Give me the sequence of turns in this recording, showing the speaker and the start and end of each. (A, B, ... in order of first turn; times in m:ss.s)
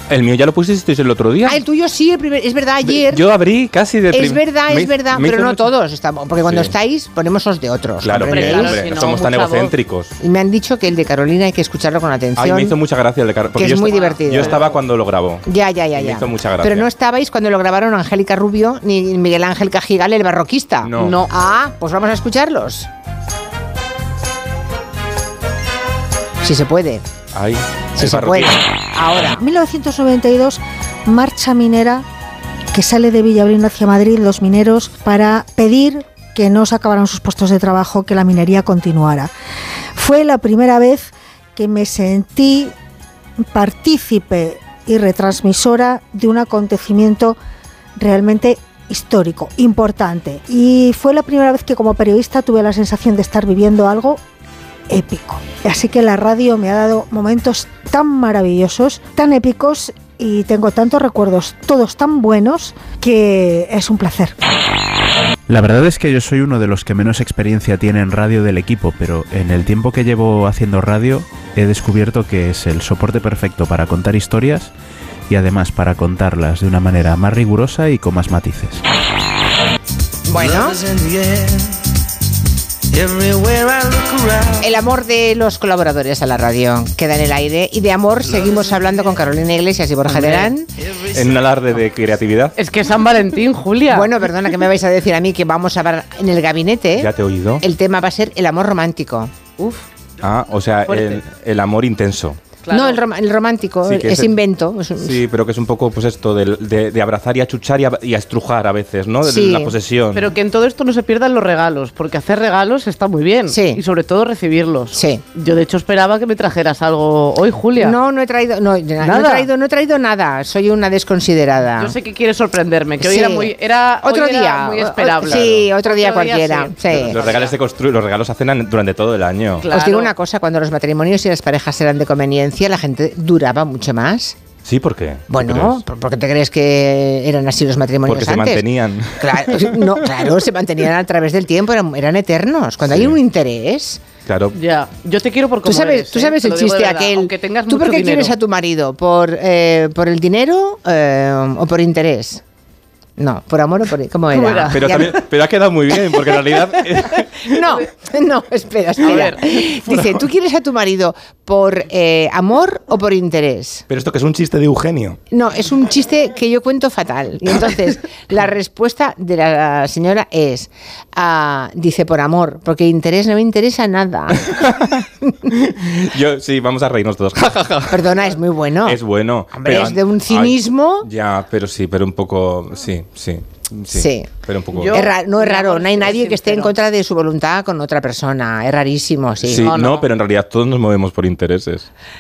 0:00.1-0:01.6 A
0:01.4-0:03.2 B
0:02.8-0:05.7 A
0:04.1-0:08.8 B
0:06.4-0:06.7 A
0:08.0-0:10.2 A
0:08.2-0:09.7 C
0:10.2-0:12.8 B
0:12.4-0:16.9 A
0:13.6-0:14.6 B
0:13.9-0:14.8 C
0:15.5-0:22.9 B
0:20.8-0:21.2 A
0:21.0-0:21.3 C
0:26.4-0:27.0 B
0:27.3-0:28.7 A
0:28.0-0:29.4 B
0:29.3-0:32.0 D
0:32.7-0:39.3 D
0:40.0-0:42.7 D
0:43.5-0:47.4 D
0:48.0-0:54.2 D
0:54.9-1:04.3 D
1:05.5-1:14.7 E
1:15.3-1:18.8 E
1:20.3-1:20.8 B
1:24.6-1:30.7 B
1:30.1-1:30.5 C
1:31.1-1:32.6 A
1:32.6-1:34.1 C
1:33.9-1:37.1 B
1:37.0-1:37.6 A
1:37.6-1:39.3 B
1:39.6-1:39.9 C
1:40.2-1:42.4 A
1:40.9-1:41.2 C
1:42.6-1:43.0 C
1:42.7-1:45.2 B
1:43.8-1:44.4 A
1:45.0-1:50.3 A
1:49.2-1:49.8 B
1:50.1-1:58.0 C
1:53.5-1:53.8 B
1:54.9-1:55.2 B
1:57.8-2:02.0 B
1:59.0-1:59.5 C
2:01.8-2:07.6 C
2:03.0-2:07.2 B
2:06.9-2:09.7 A
2:09.6-2:10.1 C
2:09.7-2:14.4 B
2:14.6-2:15.8 A
2:15.3-2:18.6 B
2:18.1-2:20.3 A
2:19.2-2:24.0 B
2:22.8-2:23.2 A
2:24.3-2:24.6 A
2:24.6-2:28.4 C
2:25.6-2:32.4 B
2:33.2-2:35.2 B
2:34.3-2:34.9 C
2:34.7-2:37.7 A
2:37.4-2:43.8 B
2:39.0-2:39.4 A
2:39.1-2:39.3 C
2:43.9-2:45.2 A
2:45.3-2:54.5 B
2:54.4-3:05.1 A
2:57.9-2:59.0 B
2:59.5-3:01.1 B
3:03.9-3:04.3 B
3:04.7-3:06.8 C
3:04.9-3:09.7 B
3:09.4-3:11.9 A
3:09.6-3:10.1 C